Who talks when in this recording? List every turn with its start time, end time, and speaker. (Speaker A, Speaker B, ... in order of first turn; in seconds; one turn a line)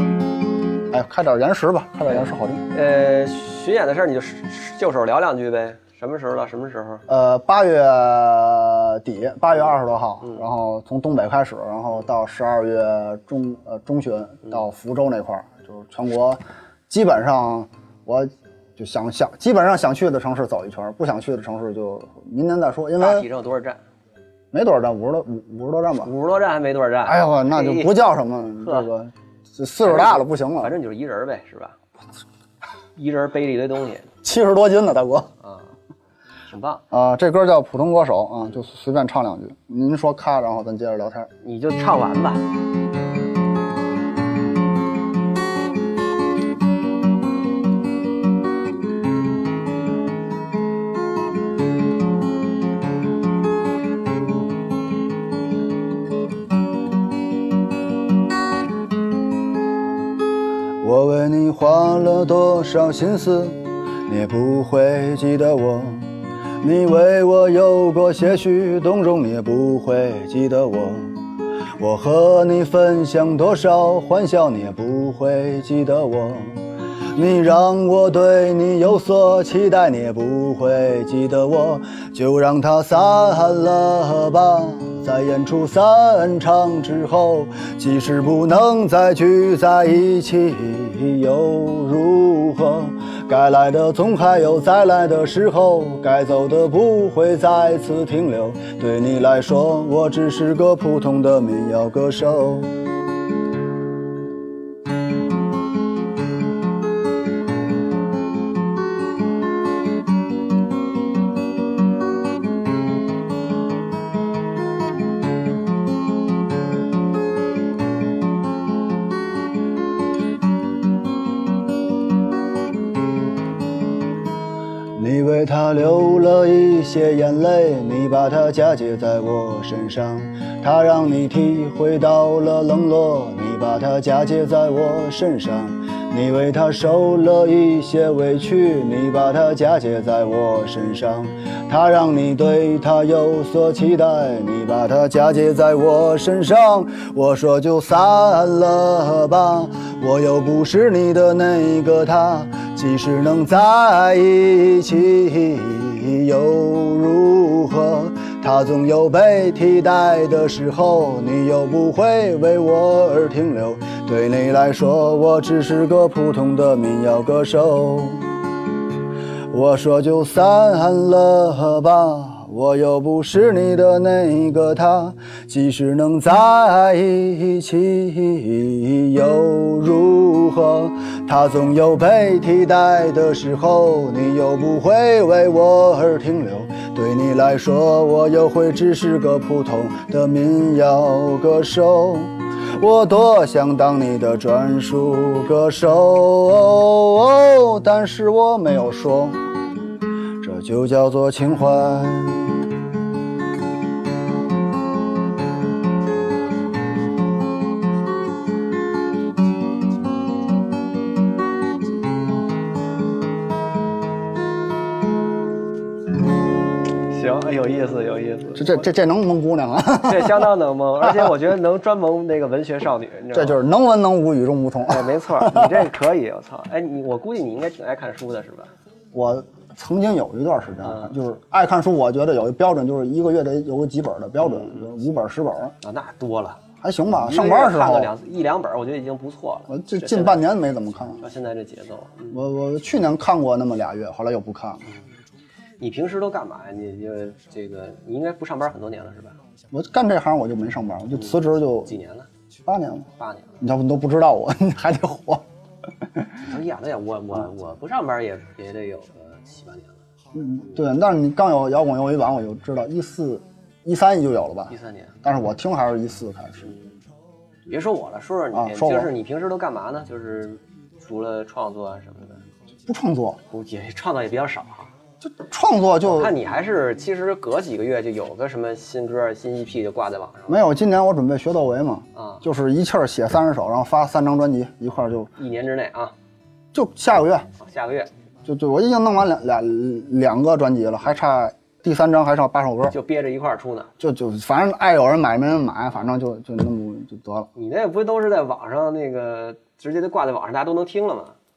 Speaker A: 0.9-2.6
Speaker B: 2.1-7.0
Speaker A: 7.1-23.3
Speaker B: 23.0-23.8
Speaker A: 24.5-26.1
Speaker B: 26.0-28.0
Speaker A: 27.1-30.7
Speaker B: 28.6-28.9
Speaker B: 29.9-31.8
Speaker B: 33.0-34.1
Speaker A: 34.2-35.3
Speaker B: 35.4-35.7
Speaker B: 36.5-36.8
Speaker A: 36.9-41.3
Speaker B: 41.4-42.5
Speaker A: 60.8-71.2
Speaker A: 71.8-102.8
Speaker A: 125.0-168.4
Speaker A: 169.5-199.4
Speaker A: 200.4-202.7
Speaker B: 217.1-218.9
Speaker A: 218.6-220.5
Speaker B: 220.0-223.6
Speaker A: 221.0-221.3
Speaker A: 223.3-225.9
Speaker B: 224.8-228.7
Speaker A: 229.1-235.8
Speaker B: 230.8-231.2
Speaker B: 234.4-234.8
Speaker B: 235.8-236.6
Speaker A: 236.8-238.1
Speaker B: 237.2-240.4
Speaker A: 239.7-241.2
Speaker B: 241.2-242.4
Speaker A: 242.3-244.9
Speaker B: 245.8-249.4
Speaker A: 249.7-251.9
Speaker B: 251.2-252.3
Speaker A: 252.7-253.1
Speaker B: 253.2-253.6
Speaker A: 253.6-255.4
Speaker A: 256.0-256.4
Speaker B: 256.4-260.0
Speaker A: 260.3-266.7
Speaker B: 264.7-265.1
Speaker B: 266.7-266.9
Speaker B: 267.7-272.4
Speaker A: 268.5-269.1
Speaker A: 272.9-273.4
Speaker B: 273.5-274.9
Speaker A: 275.2-276.4
Speaker B: 276.0-280.6
Speaker A: 280.5-285.3
Speaker B: 282.2-282.4
Speaker B: 285.4-286.1
Speaker A: 286.7-287.5
Speaker B: 287.6-288.1
Speaker A: 288.4-292.9
Speaker B: 292.9-293.9
Speaker A: 294.0-297.5
Speaker B: 297.6-301.4